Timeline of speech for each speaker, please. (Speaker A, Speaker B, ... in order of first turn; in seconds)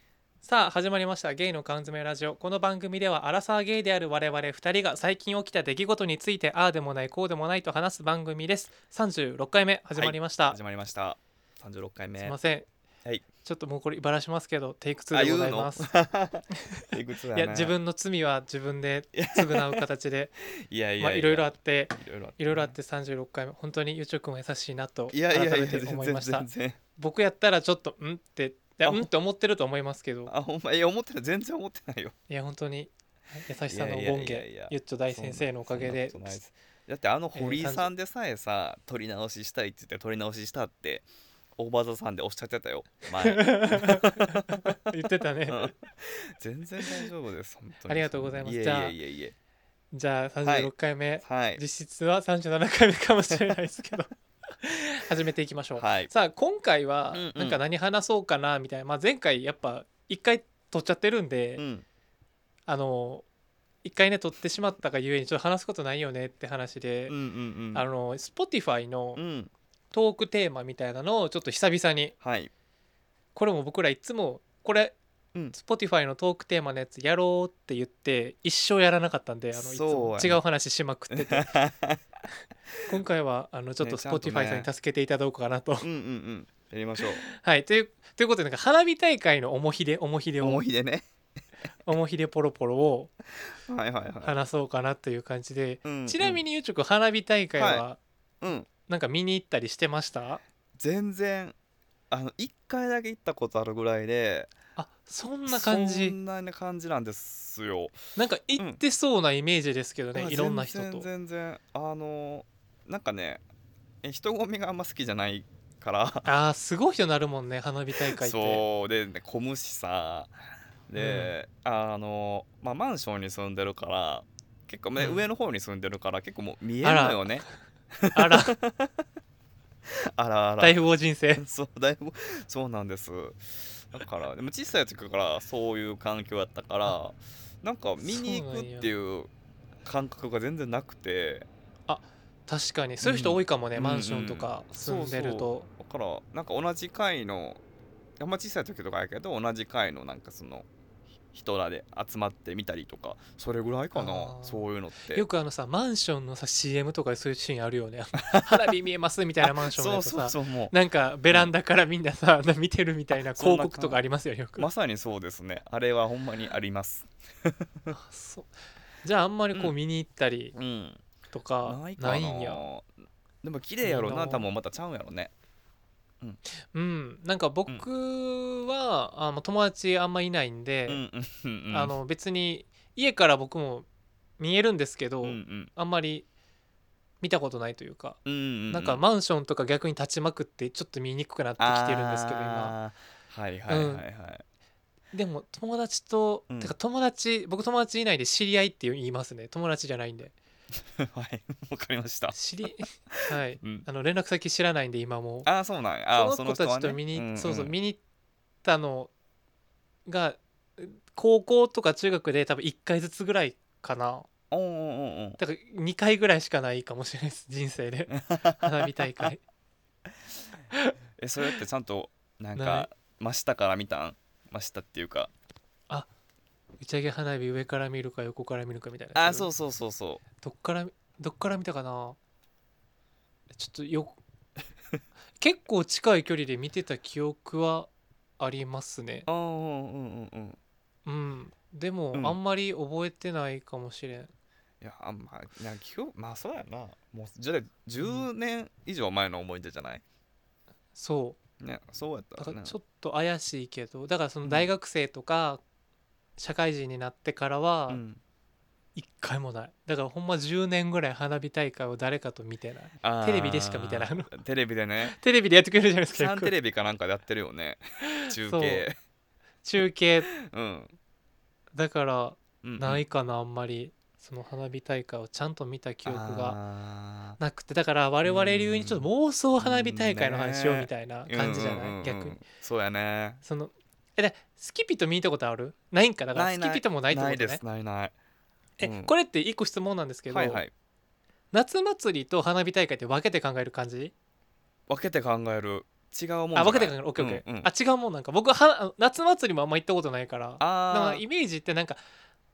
Speaker A: 0.4-10.6, 12.2-12.7, 13.4-15.9, 16.7-20.3, 21.0-30.3, 32.3-36.5, 37.3-37.9, 43.2-45.7, 47.9-48.9, 49.9-61.6, 62.7-63.2, 63.8-67.1, 67.7-69.2, 69.9-72.1, 73.3-75.0, 75.5-81.5, 82.8-85.9, 87.2-90.6, 91.8-93.1, 94.2-98.0, 98.9-100.4, 104.8-106.2, 108.2-111.1, 116.2-118.6, 121.0-121.3, 125.0-125.2, 126.8-127.3, 128.1-128.6, 130.6-131.4, 138.0-138.9, 141.9-145.7, 153.9-164.7, 167.9-168.5, 169.0-170.5, 171.3-172.6, 173.8-174.5, 176.7-181.0, 181.7-183.8, 184.4-186.2, 187.2-188.2, 188.7-192.7, 193.7-194.0, 195.1-200.3, 202.3-205.5, 206.1-208.0, 208.6-209.1, 210.1-214.3, 215.4-219.4, 222.6-222.9, 226.8-229.5, 230.4-232.2, 233.5-234.2, 235.4-239.3, 241.1-244.3, 248.0-248.3, 250.9-251.4, 252.4-255.6, 256.4-258.0, 258.9-264.3, 265.0-266.5, 268.1-268.9, 269.6-270.3, 271.7-276.6, 277.4-282.4, 283.4-287.6, 288.8-290.6, 291.5-294.1, 296.5-302.0
Speaker B: 9.9-12.3, 15.1-17.7, 19.1-19.8, 20.7-22.7, 25.1-26.8, 28.8-29.1, 30.3-32.1, 33.7-44.8, 45.5-49.3, 50.4-51.6, 55.8-56.1, 57.1-57.6, 61.6-61.8, 67.1-67.8, 69.2-69.5, 72.2-72.5, 79.5-80.4, 81.1-82.0, 83.8-84.7, 85.8-87.2, 90.4-91.0, 93.6-94.4, 95.8-96.4, 97.6-97.8, 98.4-98.7, 100.8-101.5, 102.1-104.5, 105.5-108.0, 110.1-113.4, 114.0-116.3, 118.0-120.3, 120.9-129.0, 130.1-130.8, 131.4-139.3, 139.8-141.5, 143.0-147.6, 148.2-150.7, 151.3-155.2, 158.2-158.7, 159.4-160.7, 163.3-164.0, 164.6-167.9, 170.5-171.0, 171.6-172.8, 173.4-175.3, 180.9-181.9, 185.2-185.7, 188.2-189.0, 191.6-194.4, 196.5-196.7, 200.9-203.8, 205.4-207.7, 214.5-215.4, 218.1-219.3, 221.2-225.3, 229.1-230.2, 239.3-240.6, 244.8-250.0, 251.6-252.7, 257.9-258.2, 263.0-265.1, 266.1-268.9, 270.3-270.9, 272.6-273.0, 276.1-277.4, 278.2-283.4, 286.3-288.1, 288.8-289.1, 290.3-290.7, 294.9-297.7, 300.6-301.2